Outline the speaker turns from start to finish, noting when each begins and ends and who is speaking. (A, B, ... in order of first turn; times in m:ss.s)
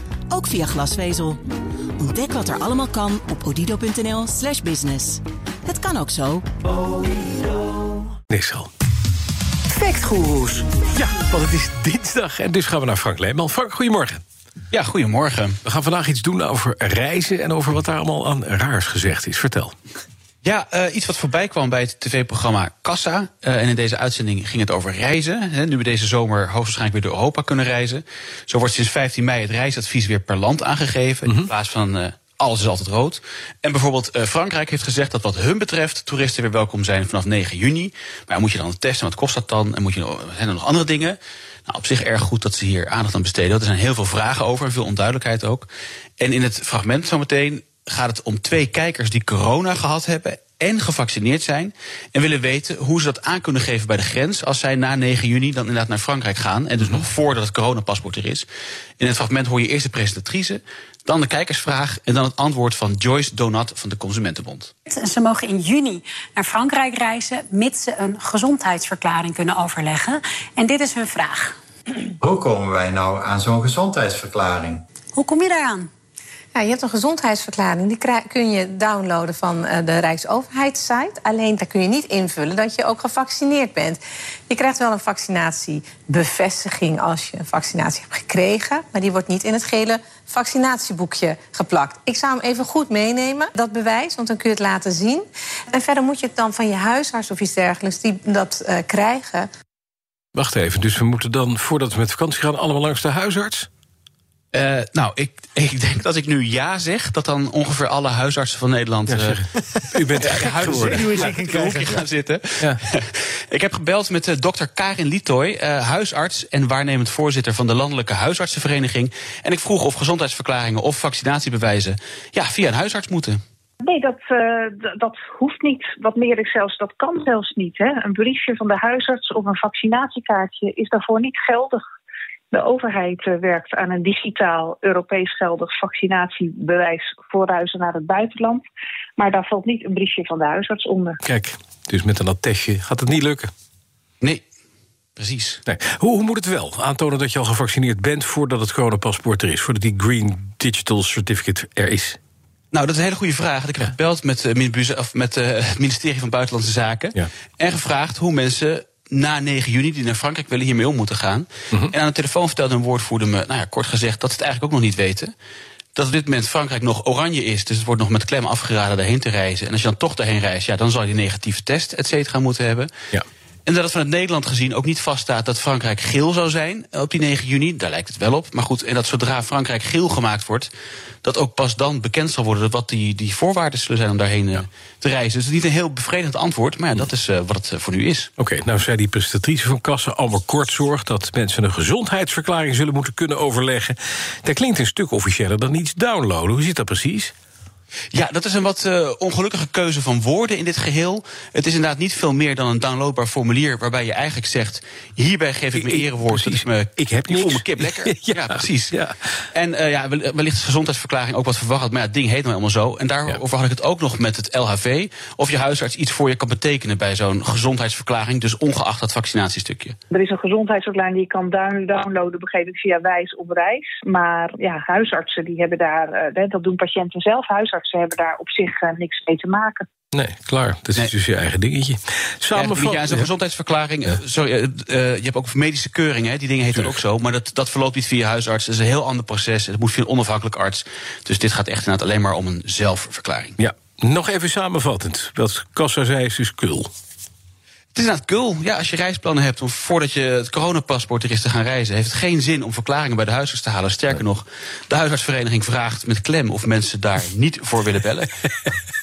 0:00.3-0:01.4 A
0:02.0-0:06.4 A
0:08.3-0:08.7 B
0:09.7-0:14.2 B
0:14.7-0:15.6 C
0:15.6-0:19.7 B
0:20.4-0:45.7 C
0:46.2-0:58.5 C
0:59.0-1:04.7 C
1:04.8-1:11.6 D
1:12.2-1:14.8 E
1:15.1-1:15.9 D
1:16.5-1:39.5 F
1:40.3-1:43.7 B
1:44.5-1:49.4 C
1:49.1-1:51.8 B
1:50.1-2:03.4 C
2:03.8-2:11.8 G
2:12.5-2:18.6 G
2:19.2-2:21.2 G
2:21.2-2:23.5 B
2:25.2-2:25.6 C
2:25.7-2:32.2 B
2:32.7-2:45.3 C
2:45.9-2:52.9 C
2:53.6-3:00.7 C
3:01.2-3:08.3 C
3:08.4-3:17.3 B
3:18.1-3:28.9 C
3:25.8-3:29.4 B
3:29.5-3:40.0 C
3:40.1-3:49.8 G
3:50.1-3:53.3 B
3:52.5-4:03.6 C
4:03.6-4:06.9 B
4:07.9-4:18.3 C